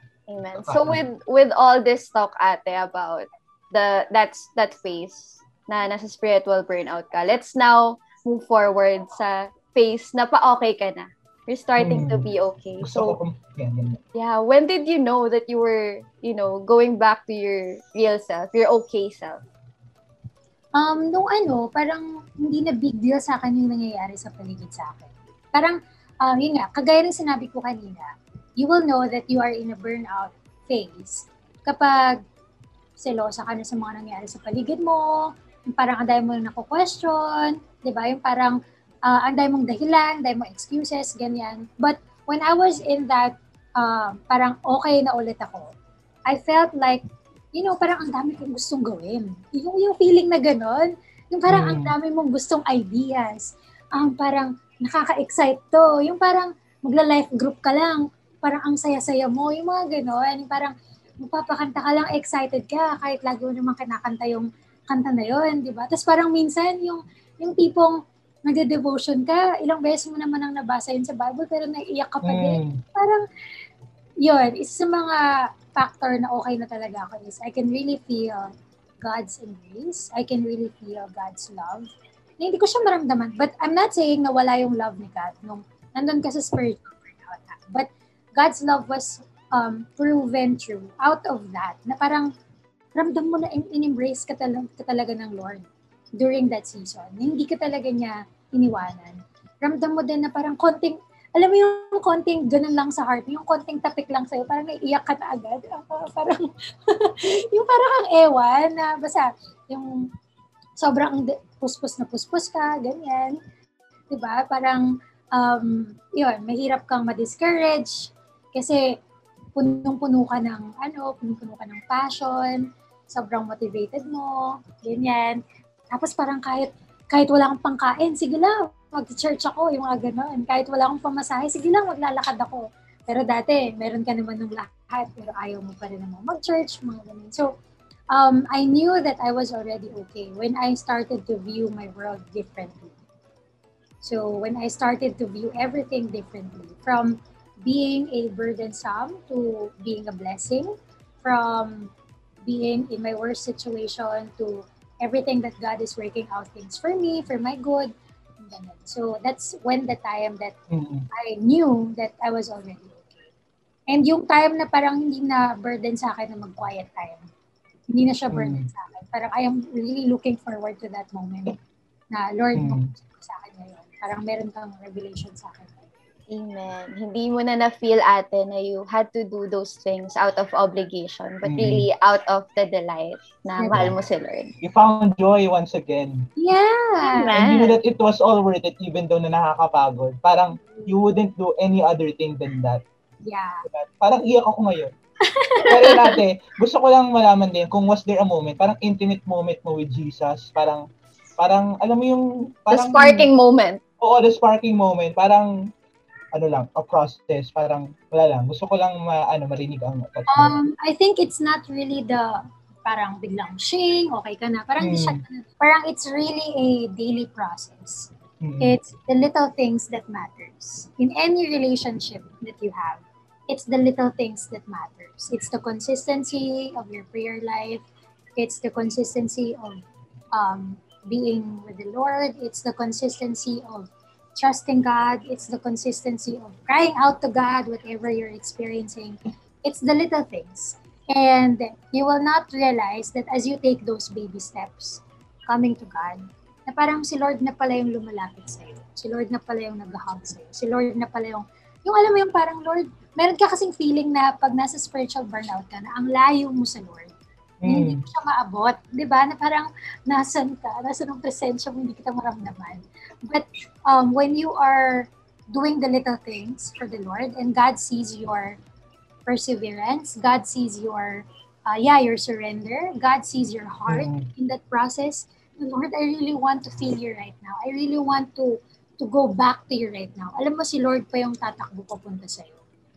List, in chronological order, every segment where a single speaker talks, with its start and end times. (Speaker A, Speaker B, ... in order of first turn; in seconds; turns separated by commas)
Speaker A: 0.3-13.2, Speaker B: 0.6-1.0, Speaker B: 11.8-12.3, Speaker B: 12.8-14.0, Speaker A: 14.1-19.4, Speaker C: 20.7-32.2, Speaker C: 33.0-45.7, Speaker C: 46.3-47.0, Speaker C: 47.5-73.2, Speaker B: 51.5-51.9, Speaker B: 72.2-72.8, Speaker C: 74.2-92.3, Speaker C: 93.0-110.1, Speaker C: 110.8-113.4, Speaker C: 114.1-119.0, Speaker C: 119.5-137.5, Speaker C: 138.1-142.9, Speaker C: 144.0-150.7, Speaker C: 151.2-151.9, Speaker C: 152.4-160.5, Speaker B: 160.7-161.1, Speaker C: 161.1-163.2, Speaker C: 163.9-167.3, Speaker C: 167.9-171.5, Speaker B: 168.3-168.7, Speaker C: 172.1-175.8, Speaker B: 172.5-172.9, Speaker A: 176.3-184.5, Speaker B: 181.4-181.8, Speaker C: 183.6-183.8, Speaker B: 183.7-183.9, Speaker B: 184.6-186.3, Speaker C: 186.4-187.3, Speaker A: 187.0-187.8, Speaker B: 187.3-192.8, Speaker C: 193.2-193.6, Speaker B: 193.7-194.9, Speaker C: 195.3-196.1, Speaker B: 195.7-200.8, Speaker B: 201.4-203.3, Speaker A: 202.7-203.8, Speaker B: 204.0-205.5, Speaker B: 206.3-210.6, Speaker C: 210.3-227.8, Speaker B: 214.8-215.2, Speaker B: 218.4-218.8, Speaker C: 228.4-229.8, Speaker C: 230.3-257.1, Speaker B: 257.6-258.0, Speaker C: 257.6-268.6, Speaker C: 269.2-282.6, Speaker B: 273.9-274.3